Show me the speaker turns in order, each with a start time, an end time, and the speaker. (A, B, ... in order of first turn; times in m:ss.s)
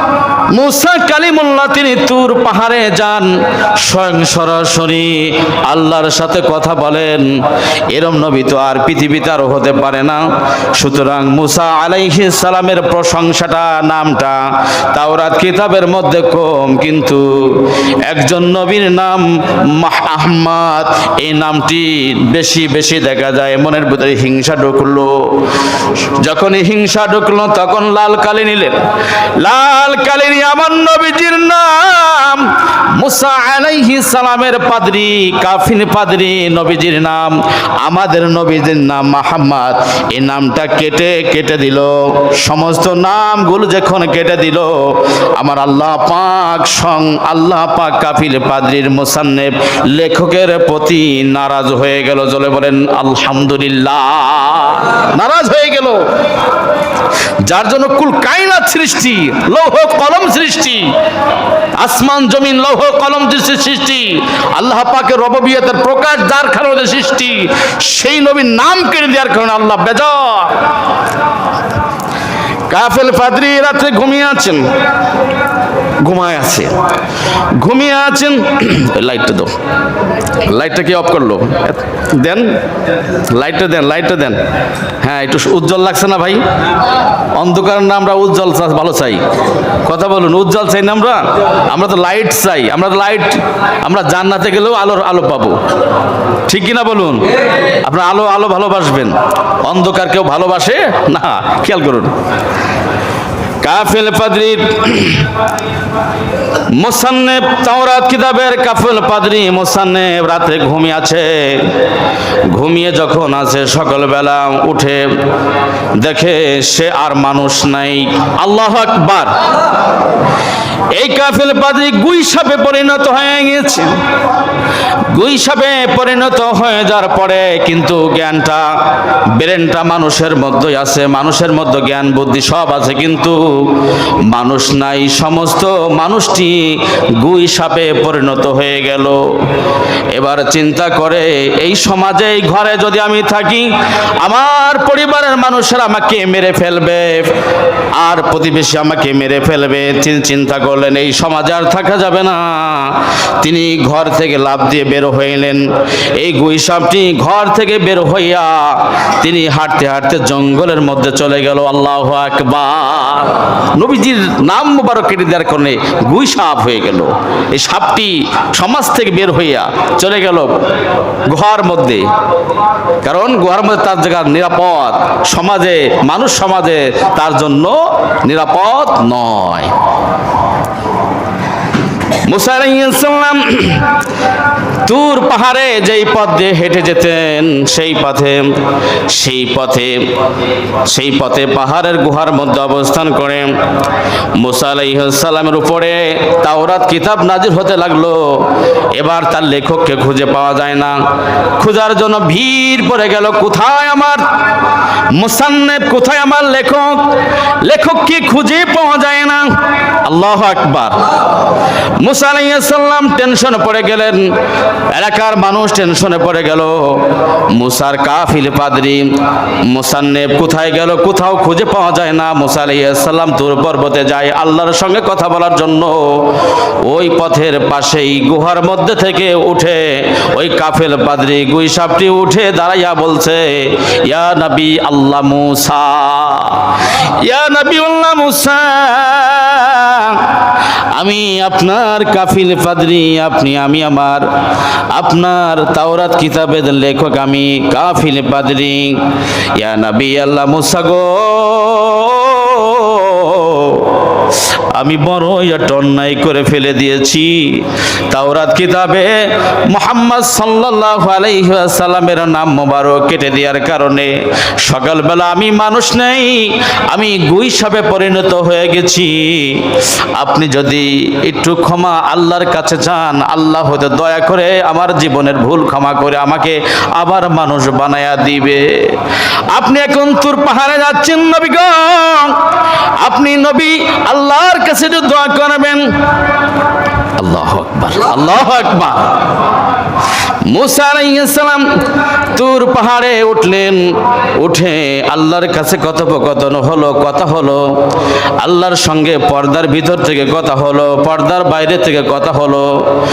0:00.5-0:10.2 A
0:10.7-0:28.8 A
0:29.4-0:56.0 A
0:57.4-1:00.9 A
1:01.8-1:10.6 A
1:12.7-1:14.7 A
1:16.0-1:16.7 A
1:17.6-1:19.5 A
1:20.3-1:22.5 A
1:23.3-1:24.4 A
1:25.0-1:26.4 A
1:27.3-1:29.2 A
1:29.8-1:35.6 A
1:36.4-1:37.2 A
1:37.8-1:42.1 A
1:43.6-1:45.3 A
1:46.7-1:51.8 A
1:52.5-1:55.0 A
1:56.0-1:59.4 A
2:00.9-2:04.0 A
2:05.1-2:08.7 A
2:09.3-2:13.7 A
2:14.2-2:19.2 A
2:20.1-2:23.7 A
2:24.2-2:27.3 A
2:28.0-2:50.5 A
2:51.2-2:52.1 A
2:53.0-2:59.7 A
3:02.2-3:03.9 A
3:04.8-3:08.5 A
3:09.1-3:10.1 A
3:10.8-3:13.5 A
3:14.4-3:21.0 A
3:21.6-3:24.2 A
3:25.1-3:27.1 A
3:27.6-3:29.5 A
3:30.0-3:31.0 A
3:32.0-3:34.3 A
3:34.9-3:39.1 A
3:39.6-4:04.3 A
4:04.9-4:09.0 A
4:09.5-4:39.0 A
4:39.5-4:42.4 A
4:43.0-4:45.9 A
4:47.2-4:49.1 A
4:50.5-4:51.7 A
4:52.3-4:57.7 A
4:58.4-5:02.8 A